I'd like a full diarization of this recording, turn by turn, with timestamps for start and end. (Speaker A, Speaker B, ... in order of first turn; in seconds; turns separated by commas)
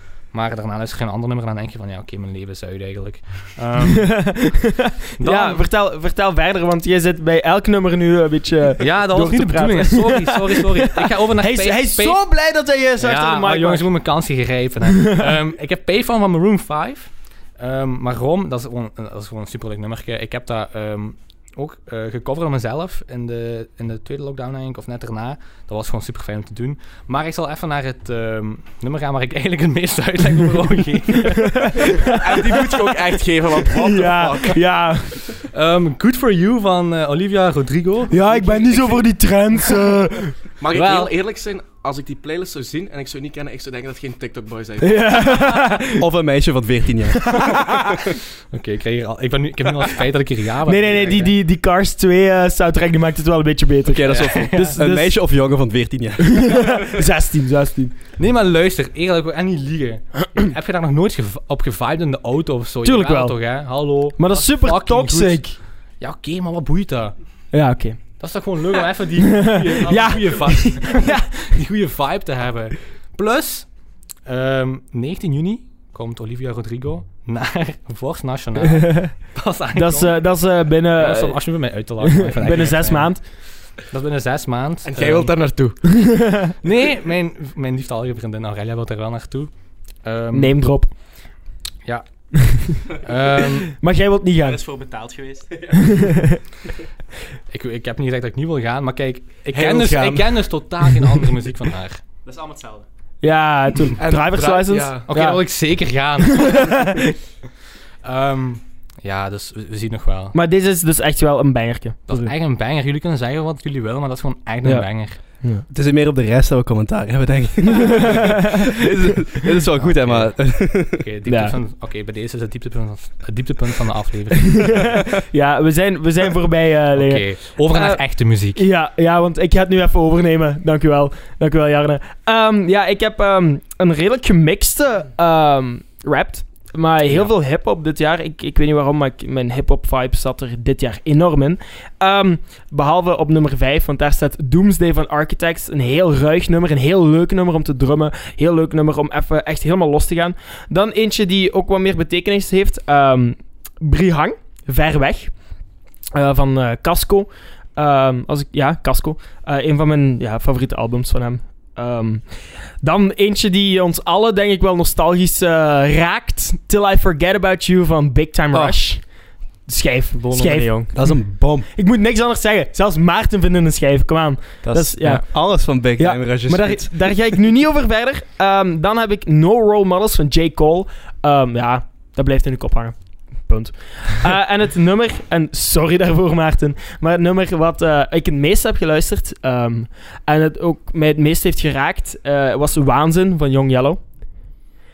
Speaker A: 0.3-4.5, Speaker B: 4.0-13.9, Speaker A: 5.2-5.6, Speaker A: 8.8-12.3, Speaker A: 13.0-31.9, Speaker B: 31.6-32.2, Speaker C: 32.1-34.6, Speaker B: 33.7-35.3, Speaker A: 35.5-39.0, Speaker B: 38.1-40.4, Speaker C: 40.6-45.6, Speaker A: 40.7-41.1, Speaker B: 44.8-46.0, Speaker D: 46.0-47.8, Speaker B: 47.3-47.9, Speaker A: 48.5-51.3, Speaker B: 50.7-55.3, Speaker D: 53.9-56.9, Speaker A: 54.1-54.8, Speaker B: 56.4-58.0, Speaker A: 58.2-67.4, Speaker B: 62.8-65.6, Speaker B: 67.5-68.2, Speaker A: 68.2-85.8, Speaker B: 69.5-71.3, Speaker B: 78.8-83.2, Speaker C: 84.8-85.8, Speaker B: 86.0-86.5, Speaker A: 86.6-90.6, Speaker B: 90.3-91.2, Speaker A: 91.8-93.8, Speaker B: 93.8-94.6, Speaker E: 94.4-96.1, Speaker B: 95.8-96.4, Speaker A: 97.5-102.0, Speaker C: 99.5-100.3, Speaker E: 102.3-102.8, Speaker B: 103.2-105.6, Speaker C: 104.0-105.1, Speaker A: 105.1-107.0, Speaker B: 106.4-107.0, Speaker A: 108.0-110.4, Speaker B: 110.3-112.3, Speaker A: 112.1-115.2, Speaker B: 114.6-115.7, Speaker D: 115.7-121.0, Speaker A: 119.8-125.0, Speaker B: 121.3-121.5, Speaker B: 124.6-155.6, Speaker A: 127.0-128.7, Speaker B: 156.2-194.5, Speaker E: 168.5-168.8, Speaker E: 170.2-171.1, Speaker D: 170.9-171.7, Speaker E: 174.6-175.2, Speaker D: 175.2-177.0